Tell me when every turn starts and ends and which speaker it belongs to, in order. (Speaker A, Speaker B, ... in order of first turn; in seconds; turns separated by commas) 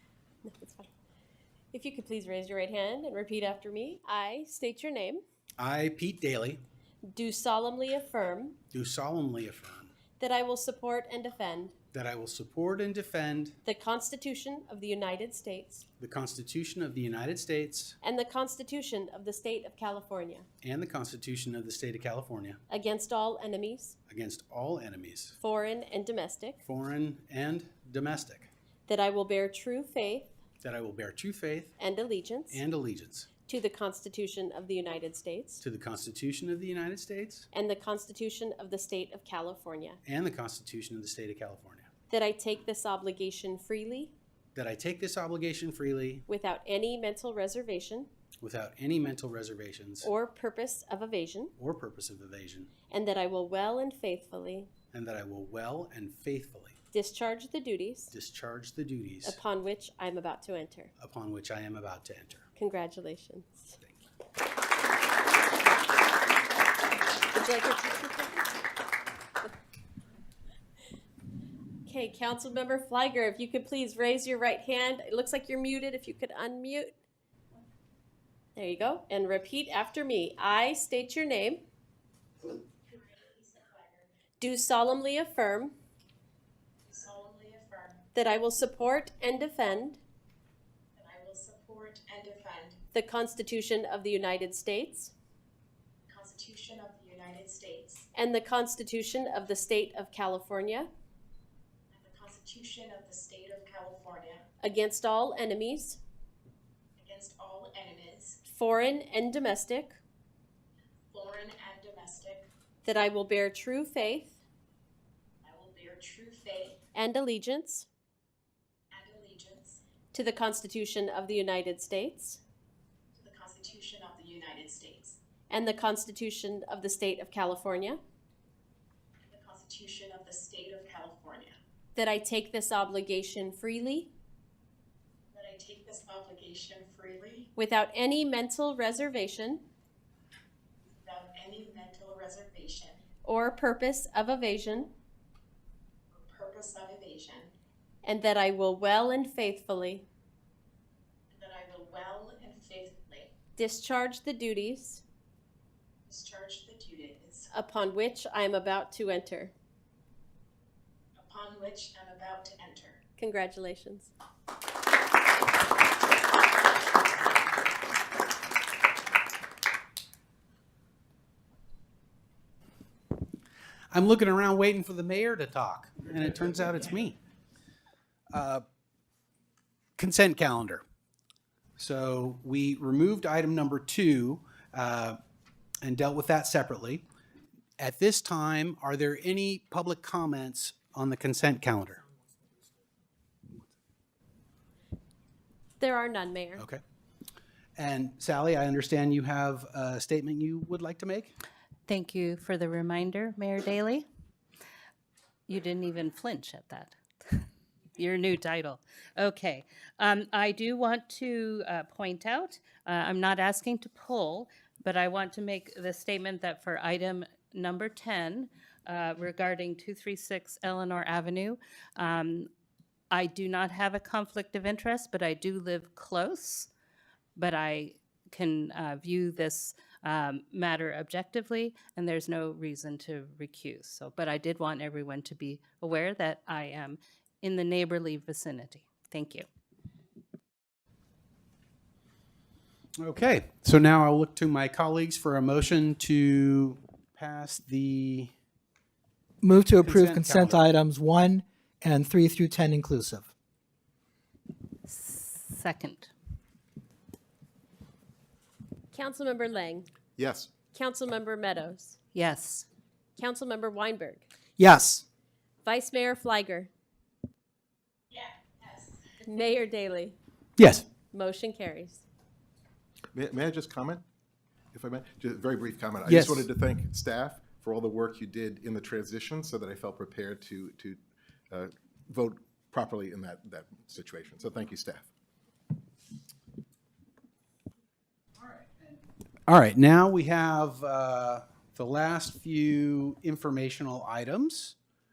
Speaker A: 0.5-0.9, Speaker A: 1.7-5.2, Speaker B: 5.6-6.6, Speaker A: 7.1-8.6, Speaker B: 8.7-9.9, Speaker A: 10.2-11.8, Speaker B: 11.9-13.6, Speaker A: 13.7-15.9, Speaker B: 16.0-18.0, Speaker A: 18.0-20.5, Speaker B: 20.6-22.6, Speaker A: 22.7-23.9, Speaker B: 24.1-25.4, Speaker A: 25.4-26.6, Speaker B: 26.6-28.5, Speaker A: 28.9-30.3, Speaker B: 30.6-31.7, Speaker A: 31.8-32.6, Speaker B: 32.5-33.3, Speaker A: 33.5-35.6, Speaker B: 35.6-37.5, Speaker A: 37.5-40.0, Speaker B: 40.0-41.9, Speaker A: 42.1-44.1, Speaker B: 44.5-46.2, Speaker A: 46.3-48.1, Speaker B: 48.4-50.1, Speaker A: 50.0-51.5, Speaker B: 51.6-52.7, Speaker A: 52.9-54.7, Speaker B: 54.9-56.8, Speaker A: 56.9-58.1, Speaker B: 58.1-59.4, Speaker A: 59.2-60.9, Speaker B: 61.0-62.5, Speaker A: 62.6-63.8, Speaker A: 67.3-68.5, Speaker A: 71.9-76.9, Speaker A: 78.6-81.6, Speaker C: 82.9-84.1, Speaker A: 84.4-85.8, Speaker C: 86.9-88.0, Speaker A: 88.1-90.0, Speaker C: 91.0-92.8, Speaker A: 92.9-95.1, Speaker C: 96.1-98.1, Speaker A: 98.1-100.9, Speaker C: 101.9-104.5, Speaker A: 104.6-106.0, Speaker C: 107.0-108.4, Speaker A: 108.5-110.0, Speaker C: 111.1-112.5, Speaker A: 112.8-114.4, Speaker C: 115.4-116.8, Speaker A: 116.9-117.9, Speaker C: 118.9-119.8, Speaker A: 120.1-122.4, Speaker C: 123.2-125.2, Speaker A: 125.5-128.0, Speaker C: 129.3-131.6, Speaker A: 132.0-134.1, Speaker C: 135.3-137.5, Speaker A: 137.6-139.6, Speaker C: 141.0-143.0, Speaker A: 143.2-144.9, Speaker C: 146.1-147.5, Speaker A: 148.1-150.1, Speaker C: 151.3-153.3, Speaker A: 153.6-155.0, Speaker C: 156.1-157.5, Speaker A: 157.5-159.5, Speaker C: 161.2-163.0, Speaker A: 163.2-164.1, Speaker B: 173.9-177.2, Speaker B: 178.3-178.6, Speaker B: 180.0-180.8, Speaker B: 181.8-185.2, Speaker B: 185.8-187.0, Speaker B: 187.8-192.0, Speaker A: 195.8-196.7, Speaker B: 197.8-201.3, Speaker D: 201.9-204.1, Speaker D: 205.5-207.4, Speaker D: 208.0-222.5, Speaker D: 223.1-226.7, Speaker D: 227.4-239.5, Speaker B: 243.0-248.3, Speaker E: 249.4-253.3, Speaker B: 249.8-250.6, Speaker D: 254.9-256.1, Speaker A: 258.9-259.9, Speaker F: 260.2-260.5, Speaker A: 260.7-262.0, Speaker D: 262.1-262.7, Speaker A: 263.2-264.2, Speaker E: 264.6-265.0, Speaker A: 265.6-266.7, Speaker C: 268.1-269.0, Speaker A: 269.2-270.2, Speaker E: 270.6-270.9, Speaker A: 271.1-272.0, Speaker F: 273.1-274.0, Speaker F: 274.7-281.0, Speaker E: 276.1-276.4, Speaker F: 281.5-285.1, Speaker B: 288.4-294.8